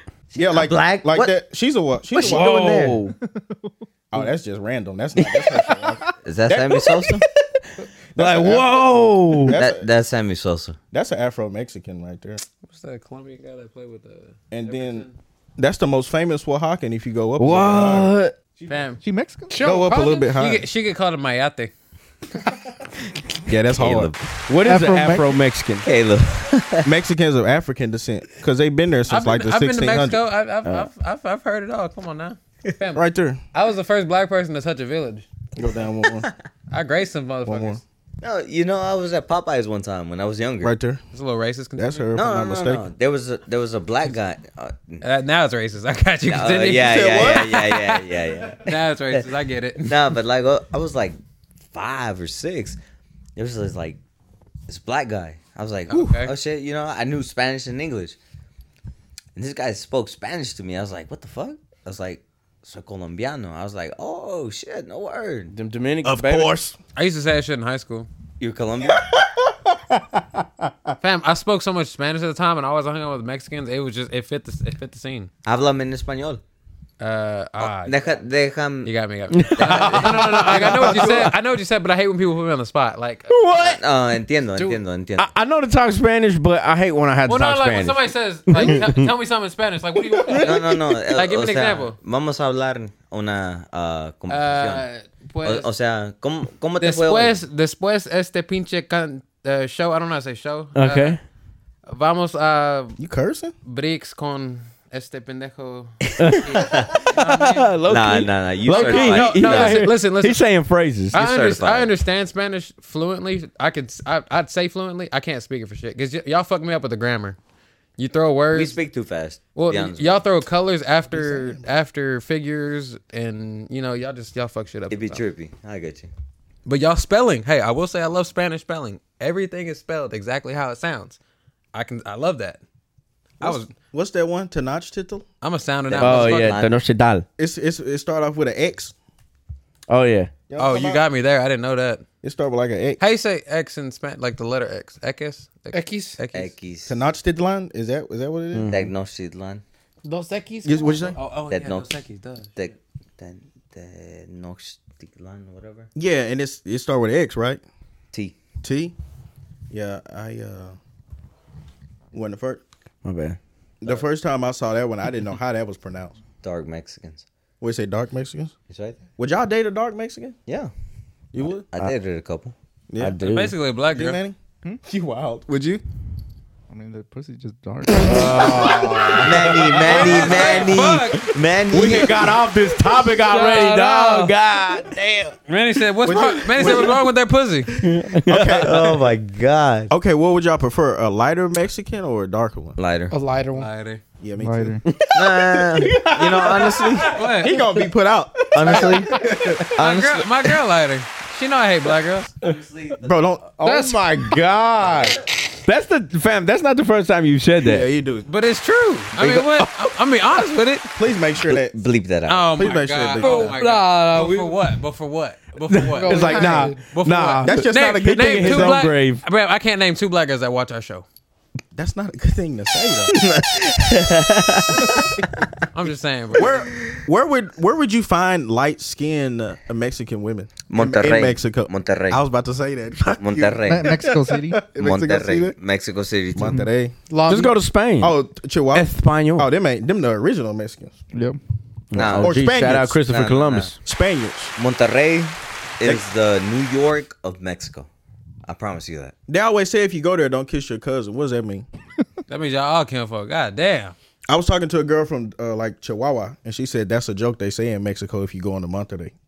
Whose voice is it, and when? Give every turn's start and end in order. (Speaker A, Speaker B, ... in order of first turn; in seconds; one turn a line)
Speaker A: 0.3-2.7
Speaker B: 0.4-1.4
Speaker B: 2.1-3.0
Speaker C: 2.2-3.2
Speaker D: 3.2-3.6
Speaker A: 4.1-7.2
Speaker C: 5.2-5.7
Speaker B: 6.2-7.2
Speaker A: 8.2-8.8
Speaker C: 8.2-9.6
Speaker A: 9.4-9.8
Speaker B: 9.5-10.8
Speaker A: 10.9-12.4
Speaker E: 12.6-15.1
Speaker A: 14.5-15.1
Speaker A: 15.6-18.1
Speaker C: 17.4-18.4
Speaker E: 18.7-19.0
Speaker D: 19.0-19.7
Speaker F: 19.5-20.2
Speaker A: 19.6-20.7
Speaker E: 19.7-21.7
Speaker A: 23.5-24.1
Speaker B: 23.5-24.2
Speaker C: 24.5-25.9
Speaker D: 24.6-25.3
Speaker B: 25.8-26.9
Speaker A: 26.9-30.2
Speaker E: 29.1-35.3
Speaker C: 30.6-30.9
Speaker A: 32.9-33.4
Speaker A: 35.6-36.3
Speaker E: 36.7-37.8
Speaker A: 37.5-37.8
Speaker B: 38.2-40.7
Speaker A: 40.6-41.0
Speaker E: 41.1-42.1
Speaker A: 41.8-42.9
Speaker B: 42.1-45.0
Speaker E: 45.0-47.0
Speaker B: 46.3-49.3
Speaker A: 46.8-47.7
Speaker E: 48.5-50.0
Speaker B: 49.9-51.2
Speaker B: 51.7-52.8
Speaker B: 53.4-54.0
Speaker B: 54.7-58.2
Speaker E: 55.9-56.3
Speaker B: 59.4-65.5
Speaker C: 65.5-66.5
Speaker A: 66.0-66.8
Speaker E: 67.0-68.1
Speaker B: 68.4-69.0
Speaker A: 68.9-70.9
Speaker E: 71.0-75.3
Speaker B: 75.5-76.4
Speaker E: 77.0-78.2
Speaker B: 77.6-81.0
Speaker E: 78.8-83.4
Speaker C: 79.3-81.4
Speaker A: 80.5-81.3
Speaker C: 83.3-83.8
Speaker B: 83.5-85.3
Speaker C: 85.2-89.1
Speaker E: 87.2-90.6
Speaker C: 90.1-91.0
Speaker B: 90.4-94.9
Speaker E: 91.2-92.0
Speaker E: 94.3-95.7
Speaker B: 95.4-97.4
Speaker E: 96.8-101.2
Speaker C: 100.7-101.2
Speaker E: 101.9-103.0
Speaker A: 103.0-103.5
Speaker E: 103.7-107.8
Speaker C: 106.2-111.2
Speaker B: 106.5-107.0
Speaker B: 107.9-109.9
Speaker E: 108.7-110.5
Speaker B: 111.1-111.9
Speaker E: 111.1-117.4
Speaker E: 118.0-118.8
Speaker B: 118.5-120.3
Speaker E: 119.5-125.2
Speaker A: 121.1-121.7
Speaker B: 124.9-126.1
Speaker E: 126.7-131.2
Speaker E: 131.7-132.6
Speaker E: 133.4-133.7
Speaker A: 133.4-135.3
Speaker E: 135.4-136.7
Speaker B: 135.9-136.7
Speaker C: 136.0-137.2
Speaker A: 137.4-138.9
Speaker C: 139.9-140.3
Speaker A: 140.5-141.0
Speaker E: 140.6-142.0
Speaker A: 142.2-143.0
Speaker E: 143.0-146.5
Speaker F: 145.7-146.2
Speaker B: 146.3-147.0
Speaker A: 146.9-148.7
Speaker C: 148.5-148.9
Speaker B: 148.7-149.6
Speaker F: 150.0-151.2
Speaker A: 150.6-151.2
Speaker E: 151.2-152.5
Speaker B: 151.5-151.9
Speaker B: 152.6-155.9
Speaker A: 156.0-157.6
Speaker B: 158.1-158.4
Speaker A: 158.6-158.9
Speaker A: 159.7-160.8
Speaker A: 162.1-162.6
Speaker C: 163.0-163.4
Speaker A: 163.8-166.2
Speaker B: 166.4-167.2
Speaker A: 167.6-168.5
Speaker B: 168.7-169.1
Speaker A: 169.2-170.4
Speaker B: 170.5-170.7
Speaker A: 171.3-171.9
Speaker B: 171.7-172.5
Speaker A: 172.9-173.2
Speaker C: 173.0-173.6
Speaker E: 173.2-174.2
Speaker A: 173.9-175.8
Speaker D: 176.7-179.2
Speaker C: 177.9-185.3
Speaker B: 179.2-182.3
Speaker E: 179.8-181.3
Speaker A: 179.9-180.6
Speaker F: 183.3-184.3
Speaker E: 185.5-187.9
Speaker A: 186.0-187.1
Speaker C: 186.6-186.9
Speaker C: 187.7-188.9
Speaker A: 188.2-189.0
Speaker B: 188.6-189.9
Speaker A: 189.9-192.8
Speaker B: 192.8-193.1
Speaker F: 193.1-193.7
Speaker E: 193.5-194.0
Speaker A: 194.2-194.8
Speaker D: 194.4-194.8
Speaker C: 194.9-197.9
Speaker B: 195.1-197.2
Speaker A: 196.4-199.7
Speaker E: 197.1-197.5
Speaker B: 198.5-200.5
Speaker C: 198.6-199.0
Speaker E: 199.8-202.3
Speaker B: 202.4-203.0
Speaker A: 203.0-203.5
Speaker C: 203.6-207.9
Speaker F: 203.6-204.0
Speaker B: 204.9-205.2
Speaker A: 207.6-208.3
Speaker E: 208.3-210.9
Speaker A: 210.9-211.8
Speaker B: 211.4-212.8
Speaker E: 212.3-221.0
Speaker A: 212.6-213.6
Speaker F: 213.2-214.6
Speaker C: 215.7-219.2
Speaker F: 215.9-216.8
Speaker A: 217.4-218.9
Speaker A: 221.8-223.2
Speaker B: 223.1-225.4
Speaker E: 225.7-226.7
Speaker A: 226.3-235.6
Speaker B: 230.7-232.2
Speaker B: 233.2-234.0
Speaker D: 233.7-234.6
Speaker B: 234.8-236.6
Speaker A: 236.3-236.9
Speaker F: 237.1-237.6
Speaker C: 237.3-238.2
Speaker A: 238.0-241.0
Speaker C: 238.7-239.5
Speaker D: 241.1-241.4
Speaker C: 241.9-243.8
Speaker B: 241.9-242.4
Speaker A: 242.1-243.0
Speaker B: 243.1-243.7
Speaker A: 243.8-244.5
Speaker B: 244.6-247.9
Speaker B: 248.4-249.1
Speaker A: 249.3-251.7
Speaker E: 252.3-253.9
Speaker A: 254.3-259.1